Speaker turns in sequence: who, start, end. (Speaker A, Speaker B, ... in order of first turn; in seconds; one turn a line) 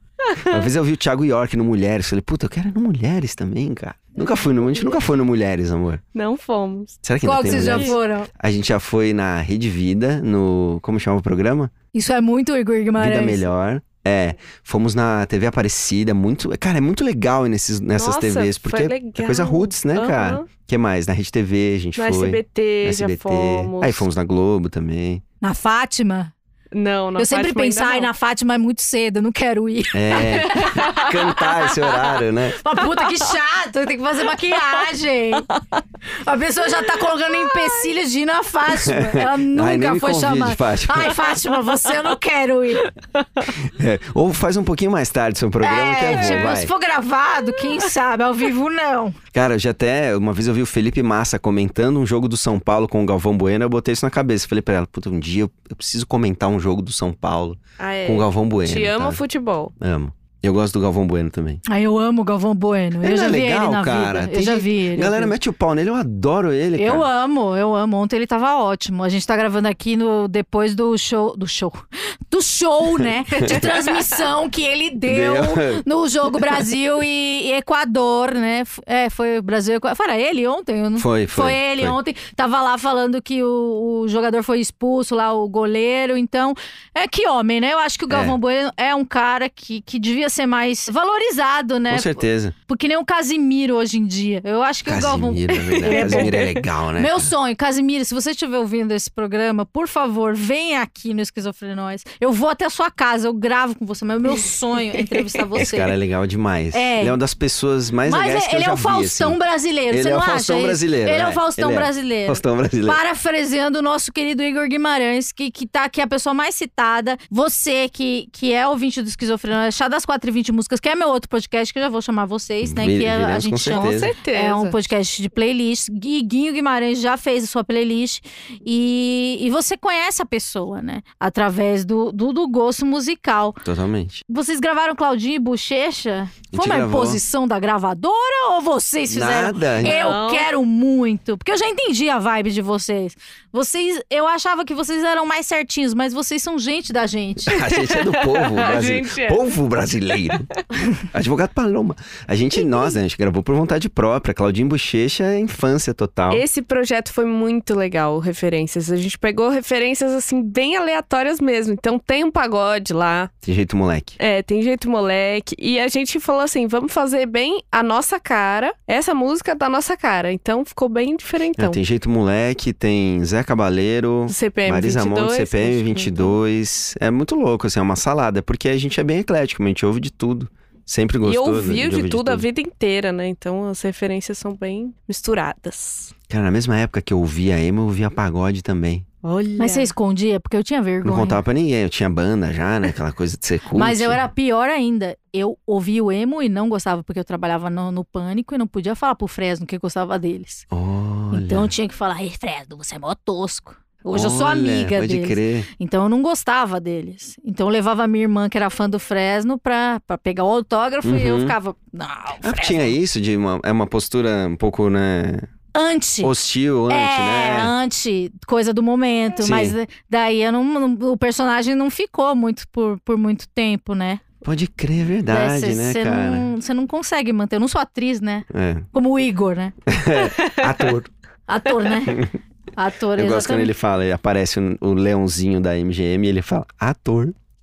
Speaker A: 0.2-0.6
Speaker B: 0.4-6.0
Speaker A: 6.2-8.0
Speaker B: 7.0-11.7
Speaker C: 7.2-8.3
Speaker C: 11.9-13.4
Speaker B: 13.0-25.2
Speaker A: 18.0-20.5
Speaker A: 22.0-24.1
Speaker C: 25.4-26.3
Speaker A: 26.7-28.1
Speaker C: 27.2-31.1
Speaker B: 29.9-32.6
Speaker A: 30.1-32.2
Speaker C: 32.6-35.5
Speaker C: 36.2-42.9
Speaker A: 37.3-37.9
Speaker B: 38.8-41.2
Speaker A: 43.2-43.5
Speaker B: 43.6-46.7
Speaker C: 45.6-49.2
Speaker A: 46.1-46.6
Speaker B: 49.3-59.2
Speaker A: 57.8-59.7
Speaker B: 59.8-61.6
Speaker C: 61.7-65.3
Speaker B: 63.0-67.1
Speaker C: 66.8-96.4
Speaker B: 73.4-73.7
Speaker B: 75.1-75.8
Speaker B: 81.0-82.0
Speaker B: 88.1-88.4
Speaker B: 91.9-92.5
Speaker B: 94.9-97.3
Speaker A: 95.8-96.6
Speaker C: 97.0-105.9
Speaker B: 105.6-109.4
Speaker C: 106.7-107.2
Speaker C: 108.1-133.6
Speaker B: 109.9-113.0
Speaker B: 122.6-124.1
Speaker A: 123.7-124.8
Speaker B: 133.7-134.2
Speaker C: 134.3-147.7
Speaker B: 136.5-137.2
Speaker B: 139.1-140.0
Speaker A: 139.8-140.5
Speaker B: 147.4-150.5
Speaker A: 147.8-149.5
Speaker B: 151.0-156.5
Speaker A: 156.3-163.3
Speaker B: 163.4-164.2
Speaker A: 164.2-171.8
Speaker B: 171.6-182.5
Speaker A: 174.3-176.4
Speaker A: 181.2-186.1
Speaker B: 186.3-189.1
Speaker A: 189.2-189.9
Speaker C: 189.6-191.4
Speaker B: 191.0-194.2
Speaker C: 193.7-200.7
Speaker B: 200.7-201.7
Speaker C: 201.3-212.9
Speaker B: 204.1-205.7
Speaker B: 211.0-211.6
Speaker B: 212.4-215.5
Speaker C: 215.7-216.3
Speaker B: 216.2-217.7
Speaker C: 216.9-224.2
Speaker B: 219.4-219.8
Speaker B: 224.4-226.5
Speaker C: 225.3-229.7
Speaker B: 228.5-228.9
Speaker B: 229.9-231.1
Speaker A: 230.3-230.6
Speaker C: 231.5-233.7
Speaker B: 232.1-232.3
Speaker B: 233.2-237.3